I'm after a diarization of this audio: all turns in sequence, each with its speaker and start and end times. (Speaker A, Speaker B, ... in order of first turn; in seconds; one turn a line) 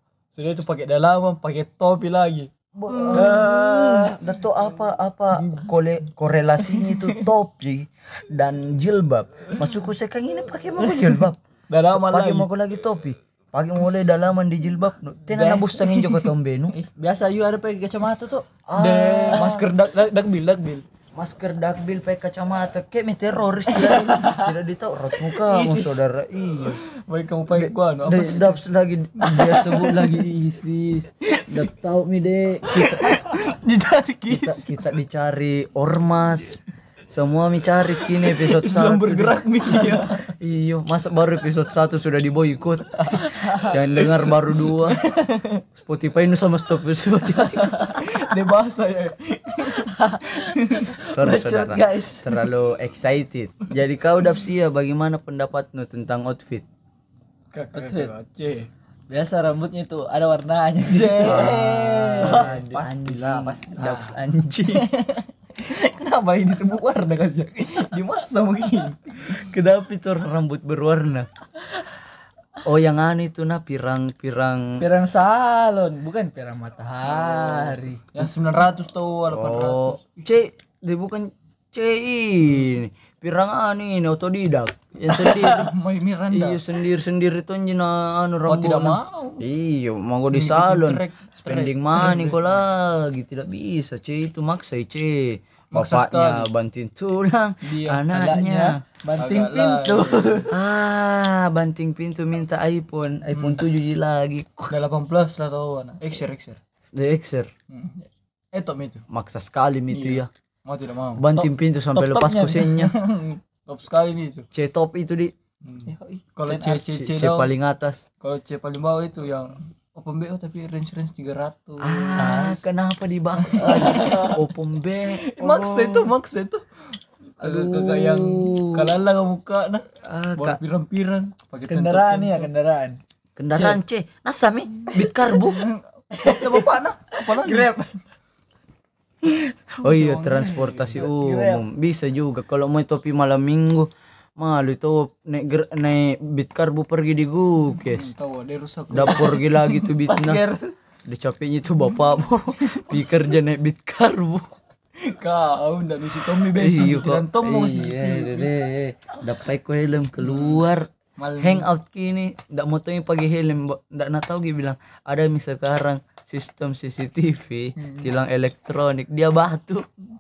Speaker A: 0.3-4.0
Speaker B: 2.8-16.8
Speaker C: 3.1-4.1
Speaker A: 6.7-7.3
Speaker A: 11.0-12.5
Speaker C: 15.3-15.8
Speaker C: 16.7-18.5
Speaker B: 18.7-19.7
Speaker A: 18.8-20.9
Speaker B: 21.1-26.8
Speaker C: 23.9-24.5
Speaker C: 25.3-26.0
Speaker A: 26.8-28.6
Speaker B: 27.5-33.3
Speaker A: 29.2-30.3
Speaker A: 31.3-31.7
Speaker A: 32.6-34.9
Speaker B: 34.3-45.0
Speaker A: 38.0-40.3
Speaker A: 43.1-45.6
Speaker B: 45.8-48.1
Speaker A: 47.4-51.0
Speaker C: 49.6-52.4
Speaker B: 51.0-56.7
Speaker A: 57.5-58.7
Speaker C: 57.7-58.1
Speaker C: 59.1-63.0
Speaker A: 60.9-64.1
Speaker B: 61.2-64.9
Speaker A: 64.7-69.3
Speaker B: 69.3-71.3
Speaker B: 72.6-74.8
Speaker C: 74.8-78.0
Speaker A: 77.1-80.2
Speaker B: 79.3-85.8
Speaker A: 85.2-86.6
Speaker B: 86.3-98.8
Speaker A: 88.5-89.5
Speaker A: 90.3-92.6
Speaker A: 95.7-96.5
Speaker A: 97.6-98.1
Speaker C: 98.1-100.5
Speaker A: 99.1-100.5
Speaker B: 100.5-104.7
Speaker A: 103.3-103.7
Speaker A: 104.7-106.6
Speaker B: 106.9-107.5
Speaker A: 107.7-109.0
Speaker B: 109.1-110.3
Speaker A: 109.9-111.4
Speaker B: 111.2-113.0
Speaker C: 111.9-112.8
Speaker A: 112.6-114.5
Speaker B: 114.5-115.3
Speaker A: 115.6-117.5
Speaker B: 116.5-118.0
Speaker A: 118.2-122.5
Speaker B: 121.8-125.8
Speaker C: 122.2-122.6
Speaker A: 123.4-124.5
Speaker C: 123.6-124.4
Speaker A: 125.0-126.6
Speaker C: 125.5-126.0
Speaker A: 127.4-132.5
Speaker B: 127.4-129.0
Speaker B: 130.0-130.6
Speaker C: 131.7-133.0
Speaker B: 133.4-135.7
Speaker A: 135.3-137.8
Speaker C: 136.1-137.9
Speaker B: 139.2-148.1
Speaker A: 139.8-141.1
Speaker C: 141.0-141.6
Speaker A: 147.9-149.9
Speaker B: 148.9-150.4
Speaker C: 150.0-150.7
Speaker B: 151.1-154.5
Speaker A: 152.6-153.2
Speaker A: 155.0-158.5
Speaker B: 156.6-169.9
Speaker A: 160.2-160.7
Speaker A: 161.2-161.7
Speaker A: 167.8-168.1